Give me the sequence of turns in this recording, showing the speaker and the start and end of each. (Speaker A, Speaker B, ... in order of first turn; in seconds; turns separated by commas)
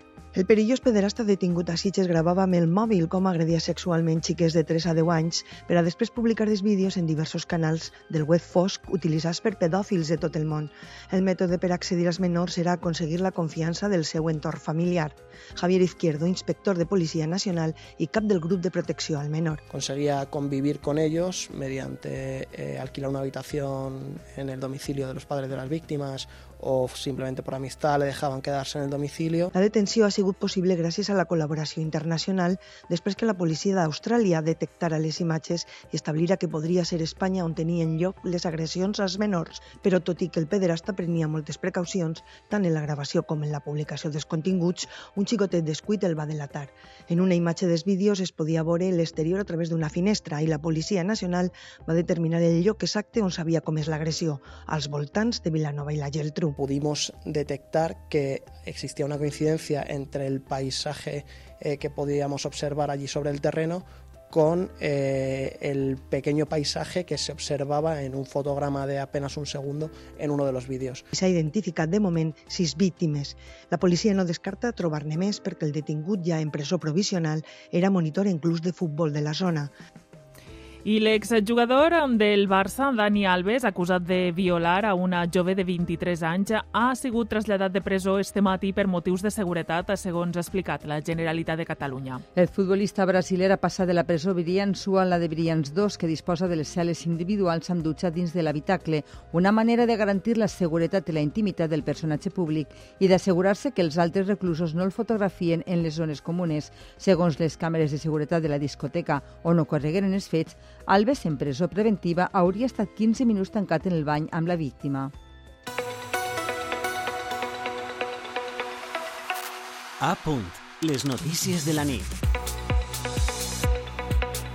Speaker A: 0.3-19.6, Speaker B: 19.7-29.5, Speaker A: 29.5-56.5, Speaker B: 56.6-71.1, Speaker A: 71.1-79.7, Speaker C: 80.8-92.2, Speaker D: 92.3-115.1, Speaker E: 120.0-122.2